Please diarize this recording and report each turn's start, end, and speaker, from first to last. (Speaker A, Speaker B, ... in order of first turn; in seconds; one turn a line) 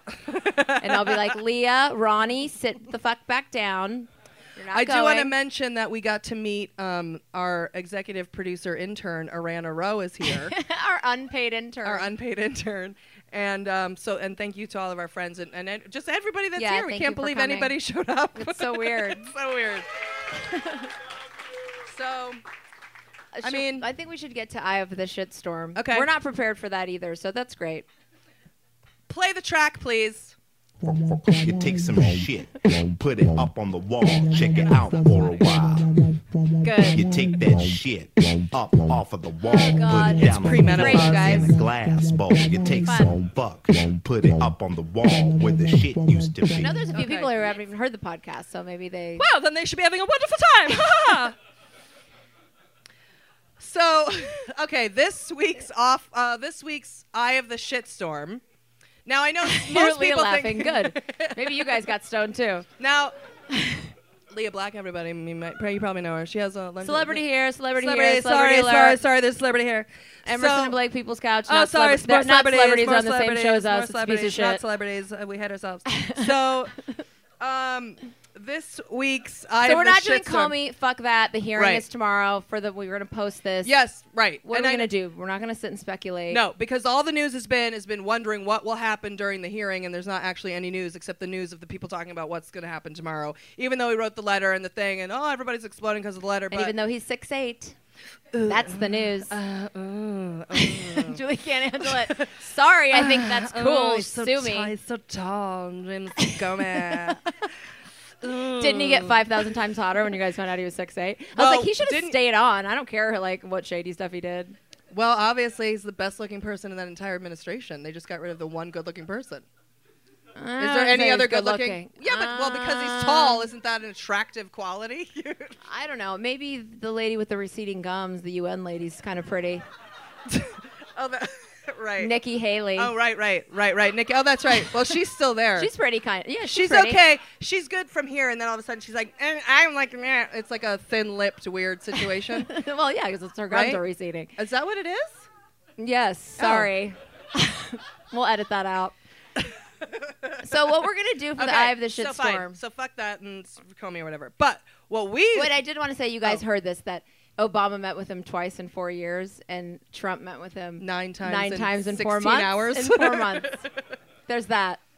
Speaker A: 0.3-1.3
Speaker B: 0.8-5.3
Speaker A: 4.7-10.5
Speaker B: 10.3-12.1
Speaker A: 11.8-19.9
Speaker B: 16.6-17.8
Speaker B: 18.3-19.3
Speaker B: 20.3-20.9
Speaker A: 21.9-22.4
Speaker B: 23.3-27.9
Speaker A: 23.4-23.9
Speaker A: 25.7-26.1
Speaker A: 29.1-30.3
Speaker C: 30.8-46.8
Speaker B: 36.6-37.0
Speaker B: 39.5-41.5
Speaker A: 40.2-41.3
Speaker B: 42.8-43.1
Speaker B: 46.5-49.2
Speaker A: 46.9-47.3
Speaker A: 49.2-51.3
Speaker A: 53.6-58.4
Speaker A: 59.0-61.9
Speaker B: 59.4-62.7
Speaker A: 62.8-63.1
Speaker A: 64.3-67.2
Speaker B: 66.8-69.0
Speaker A: 67.8-70.8
Speaker B: 70.2-74.6
Speaker A: 71.5-76.8
Speaker B: 75.9-76.2
Speaker A: 77.4-80.5
Speaker B: 79.6-83.7
Speaker A: 81.5-81.8
Speaker A: 83.6-84.9
Speaker B: 84.5-86.4
Speaker A: 86.3-96.7
Speaker B: 96.5-97.8
Speaker A: 98.3-101.2
Speaker B: 98.4-99.3
Speaker B: 100.5-104.7
Speaker A: 101.9-102.3
Speaker A: 102.9-107.3
Speaker A: 108.2-109.5
Speaker B: 108.5-114.6
Speaker A: 111.3-112.2
Speaker A: 114.9-119.5
Speaker B: 120.3-123.5
Speaker A: 120.6-125.6
Speaker B: 125.6-129.7
Speaker A: 130.3-132.1
Speaker B: 132.0-132.9
Speaker A: 132.8-135.7
Speaker B: 135.6-137.0
Speaker A: 136.4-142.5
Speaker B: 142.1-144.3
Speaker A: 143.5-143.8
Speaker A: 144.4-145.3
Speaker B: 145.8-148.9
Speaker A: 146.4-146.7
Speaker A: 150.1-150.6
Speaker B: 150.4-152.6
Speaker A: 151.4-155.6
Speaker B: 155.3-163.6
Speaker A: 160.8-163.7
Speaker B: 164.3-164.8